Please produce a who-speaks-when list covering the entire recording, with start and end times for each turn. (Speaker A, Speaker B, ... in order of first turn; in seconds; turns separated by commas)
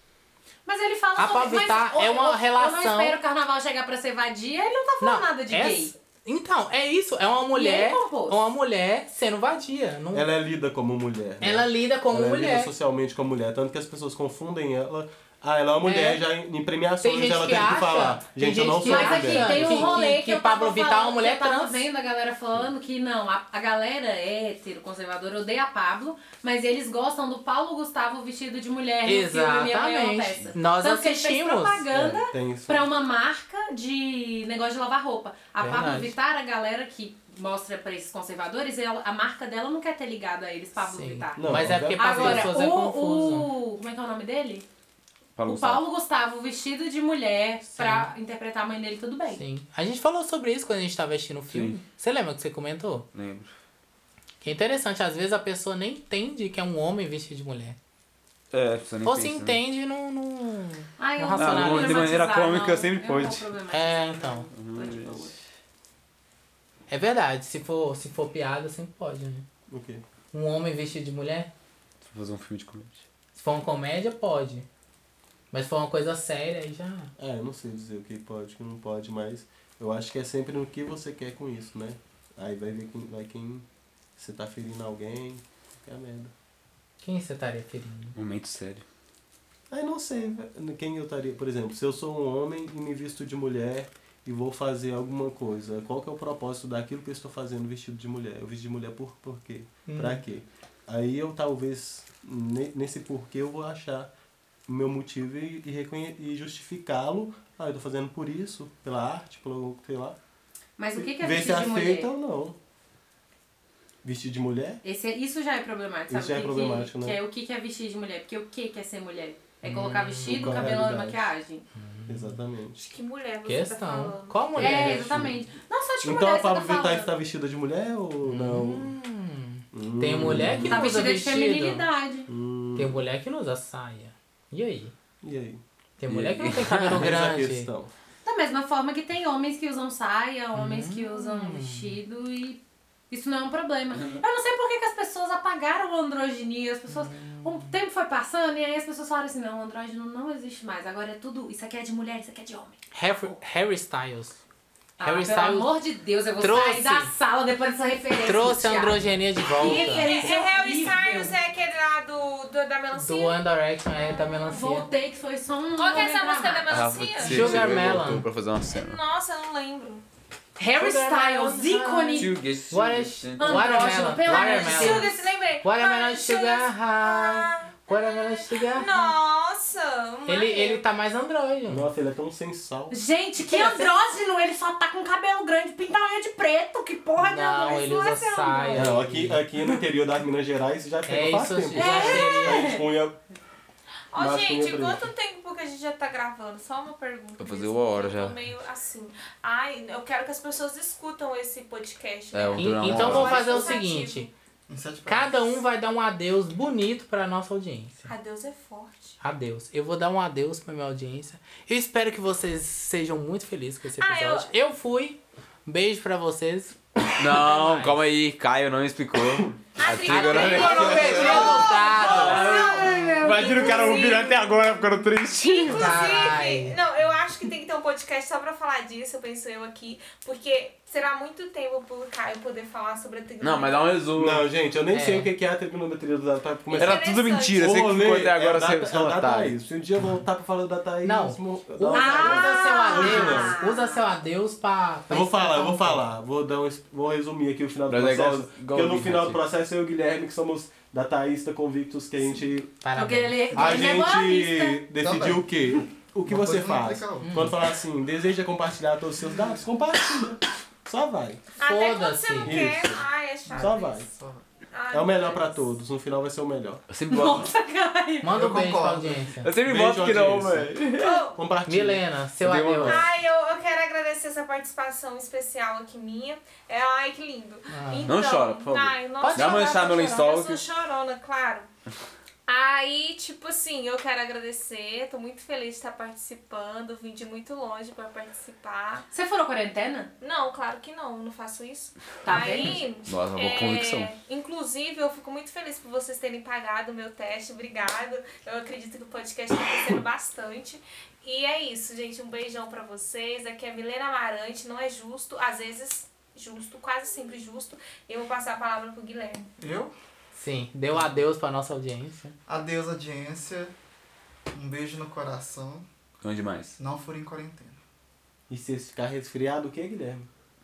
Speaker A: 0.7-5.9, Speaker B: 1.2-3.2, Speaker B: 5.0-10.2, Speaker A: 7.5-8.4, Speaker C: 10.1-20.1, Speaker B: 11.4-12.7, Speaker B: 15.8-16.2, Speaker B: 17.0-21.9, Speaker A: 18.7-44.7, Speaker B: 29.1-31.9, Speaker C: 31.9-33.0, Speaker B: 35.6-36.1, Speaker B: 40.8-43.5, Speaker C: 41.4-42.6, Speaker D: 45.4-45.8, Speaker A: 45.5-49.4, Speaker B: 47.7-48.1, Speaker B: 49.3-53.1, Speaker D: 51.5-51.8, Speaker D: 53.1-53.5, Speaker B: 54.4-57.8, Speaker D: 58.5-59.6, Speaker B: 59.0-62.2, Speaker A: 61.0-65.3, Speaker D: 61.4-63.5, Speaker B: 63.7-64.5, Speaker D: 64.5-65.3, Speaker B: 66.9-69.5, Speaker C: 69.7-70.0, Speaker B: 70.3-71.5, Speaker D: 72.0-73.0, Speaker B: 73.3-74.7, Speaker B: 75.5-77.1, Speaker C: 77.2-83.7, Speaker C: 84.2-86.3, Speaker B: 87.0-88.2, Speaker D: 88.2-88.8, Speaker C: 89.7-104.1, Speaker B: 99.9-100.2, Speaker C: 104.7-110.2, Speaker A: 110.8-112.1, Speaker C: 111.0-112.6, Speaker C: 114.0-114.8, Speaker A: 114.8-121.7, Speaker C: 116.1-117.2, Speaker B: 119.6-120.7, Speaker C: 120.2-121.3, Speaker B: 121.8-122.4, Speaker C: 122.1-122.9, Speaker E: 122.8-124.8, Speaker B: 123.5-125.3, Speaker C: 124.6-125.4, Speaker A: 124.6-127.1, Speaker C: 126.0-128.9, Speaker B: 128.2-131.9, Speaker C: 129.7-130.8, Speaker A: 130.7-132.3, Speaker C: 132.3-133.0, Speaker B: 132.8-134.9, Speaker C: 135.2-135.6, Speaker B: 136.0-137.7, Speaker D: 136.1-137.1, Speaker C: 136.9-137.9, Speaker A: 138.2-152.8, Speaker B: 140.6-141.9, Speaker B: 146.9-147.7, Speaker B: 152.9-154.4, Speaker A: 155.0-161.3, Speaker B: 155.0-155.7, Speaker B: 156.4-157.1, Speaker B: 158.2-160.1, Speaker E: 159.6-163.4, Speaker B: 162.9-164.9, Speaker A: 164.0-166.9, Speaker E: 165.8-167.8, Speaker D: 166.7-169.0, Speaker B: 167.2-168.3, Speaker E: 168.7-170.0, Speaker A: 170.6-172.4, Speaker B: 170.7-179.2, Speaker D: 172.2-173.9, Speaker A: 173.4-175.5, Speaker E: 174.2-180.8, Speaker B: 180.3-181.9, Speaker C: 181.7-182.9, Speaker A: 182.9-188.9, Speaker B: 183.4-183.9, Speaker B: 187.2-189.4, Speaker C: 188.7-193.2, Speaker B: 191.1-192.7, Speaker A: 191.7-192.9, Speaker E: 194.1-204.3, Speaker C: 194.2-195.1, Speaker D: 197.4-198.4, Speaker D: 202.3-203.7, Speaker B: 202.6-204.3, Speaker F: 204.7-205.6, Speaker B: 205.1-208.1, Speaker E: 208.1-209.2, Speaker B: 209.2-218.0, Speaker E: 214.0-214.5, Speaker D: 217.2-226.1, Speaker E: 219.8-234.0, Speaker B: 220.1-223.3, Speaker C: 220.8-221.5, Speaker A: 222.3-223.7, Speaker C: 223.6-224.2, Speaker B: 225.7-226.8, Speaker D: 233.4-234.4, Speaker C: 234.1-243.6, Speaker B: 234.9-235.3, Speaker E: 236.7-237.8, Speaker D: 236.7-239.6, Speaker B: 241.0-246.1, Speaker A: 241.9-244.0, Speaker C: 245.1-252.9, Speaker D: 247.9-249.4, Speaker B: 252.8-253.7, Speaker A: 252.9-254.8, Speaker C: 253.5-261.4, Speaker F: 255.0-257.4, Speaker B: 257.2-257.6, Speaker F: 259.3-259.6, Speaker E: 261.6-264.0, Speaker B: 261.6-262.6, Speaker C: 262.4-264.1, Speaker F: 263.5-264.4, Speaker E: 264.7-265.6, Speaker C: 264.9-266.9, Speaker D: 266.9-267.5, Speaker A: 267.1-268.3, Speaker B: 268.2-269.5, Speaker F: 268.2-269.3, Speaker D: 269.4-271.2, Speaker C: 269.6-272.1, Speaker E: 271.0-271.4, Speaker B: 271.7-273.0, Speaker D: 272.4-273.1, Speaker E: 272.8-281.7, Speaker B: 277.7-278.1, Speaker D: 278.1-280.6, Speaker B: 279.2-279.6, Speaker E: 282.5-289.1, Speaker A: 289.1-290.1, Speaker E: 290.2-309.5, Speaker A: 292.2-292.9, Speaker D: 293.1-294.1, Speaker F: 309.6-309.9, Speaker B: 310.4-312.4, Speaker F: 312.5-313.7, Speaker F: 314.5-315.9, Speaker D: 316.2-316.8, Speaker F: 316.8-317.8, Speaker C: 318.5-320.3